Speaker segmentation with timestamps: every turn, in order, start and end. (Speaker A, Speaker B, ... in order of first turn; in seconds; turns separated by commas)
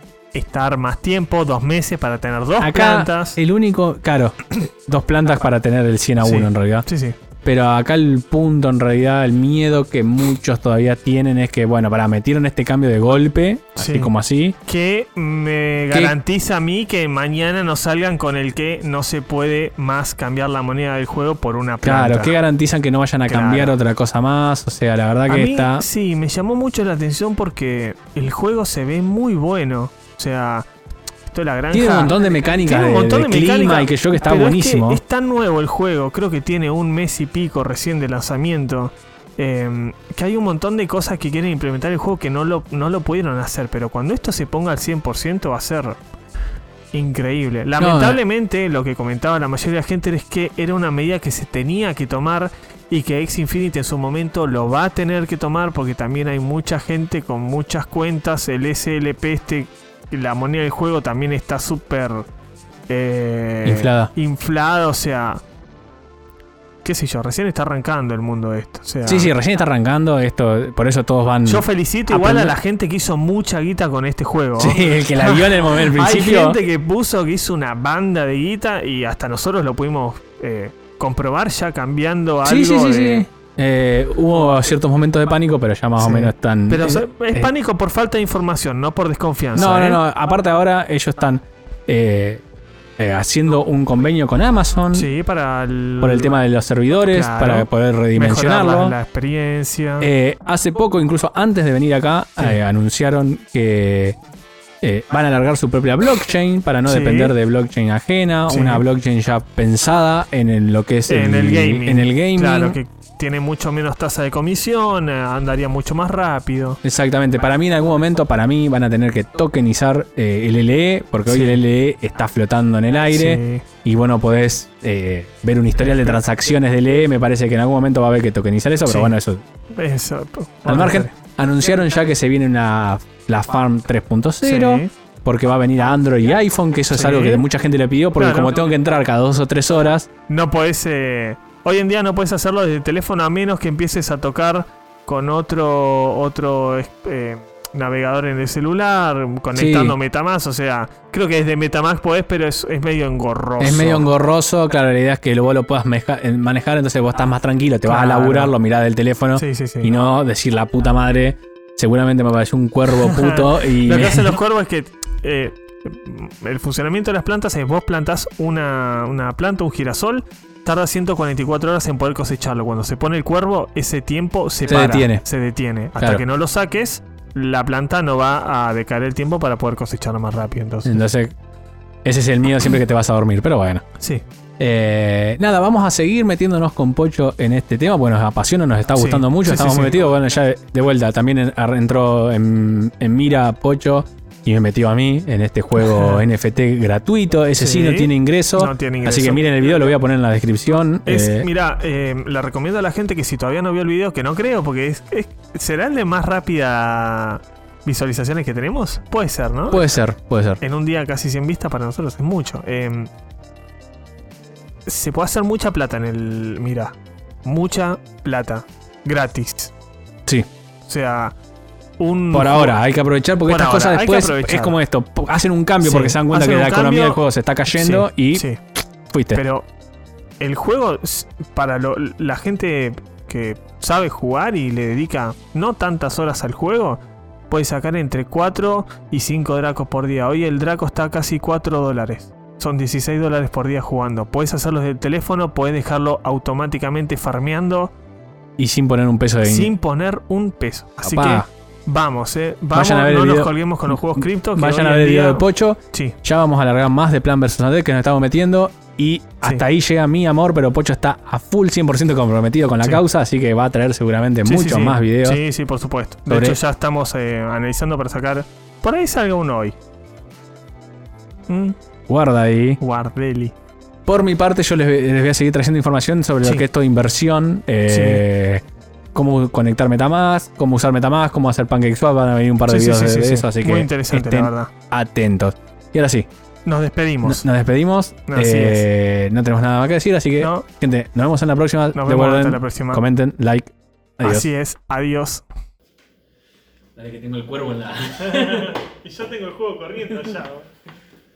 Speaker A: 0.3-3.4, Speaker B: 2.6-6.9, Speaker A: 6.2-7.2, Speaker B: 7.4-14.6, Speaker A: 13.8-14.1, Speaker A: 14.7-22.4, Speaker B: 21.8-25.9, Speaker A: 23.3-23.8, Speaker A: 25.3-30.7, Speaker A: 31.3-46.0, Speaker B: 31.7-35.0, Speaker A: 46.9-62.3, Speaker B: 47.8-48.2, Speaker A: 62.9-65.4, Speaker B: 63.6-64.1, Speaker A: 66.8-69.3, Speaker B: 69.1-72.6, Speaker A: 71.5-83.3, Speaker B: 74.6-76.6, Speaker B: 82.4-87.5, Speaker A: 86.0-90.0, Speaker B: 89.5-92.4, Speaker B: 93.0-95.1, Speaker A: 94.9-96.4, Speaker B: 96.0-99.0, Speaker A: 97.1-100.1, Speaker B: 100.0-104.2, Speaker B: 104.8-112.8, Speaker A: 106.9-107.3, Speaker A: 108.5-108.8, Speaker A: 111.1-116.8, Speaker B: 116.8-129.4, Speaker A: 121.3-121.6, Speaker A: 123.1-123.7, Speaker A: 125.8-126.2, Speaker A: 128.8-129.1, Speaker A: 129.7-131.1, Speaker B: 130.7-140.1, Speaker A: 134.4-134.9, Speaker A: 136.9-137.4, Speaker A: 138.2-138.6, Speaker A: 140.3-154.1, Speaker B: 149.5-150.0, Speaker B: 153.6-164.4, Speaker A: 157.8-158.5, Speaker A: 159.4-159.9, Speaker A: 163.0-181.0, Speaker B: 174.7-175.2, Speaker B: 180.9-181.3, Speaker B: 182.0-183.8, Speaker B: 184.6-201.5, Speaker A: 188.9-190.0, Speaker A: 195.8-196.2, Speaker A: 197.6-199.6, Speaker A: 201.1-209.9, Speaker B: 209.7-210.6, Speaker A: 210.6-213.1, Speaker A: 214.9-219.7, Speaker A: 220.9-221.3, Speaker A: 222.0-222.8, Speaker B: 222.3-228.5, Speaker A: 223.5-224.8, Speaker A: 225.8-227.2, Speaker A: 227.7-228.6, Speaker B: 229.1-229.4, Speaker A: 229.3-229.7, Speaker A: 230.4-247.9, Speaker B: 248.6-249.7, Speaker A: 249.4-256.2, Speaker B: 251.0-251.5, Speaker B: 252.7-265.4, Speaker A: 264.4-269.8, Speaker B: 266.3-266.6, Speaker A: 271.5-271.8, Speaker B: 272.1-272.8, Speaker A: 272.8-273.5, Speaker B: 274.1-278.6, Speaker A: 277.9-278.2, Speaker B: 279.1-286.3, Speaker A: 282.7-284.7, Speaker A: 286.6-287.4, Speaker B: 287.2-294.5, Speaker A: 288.3-288.9, Speaker A: 290.4-290.7, Speaker A: 291.9-293.0, Speaker A: 294.2-295.4, Speaker B: 297.0-298.8, Speaker A: 298.2-300.7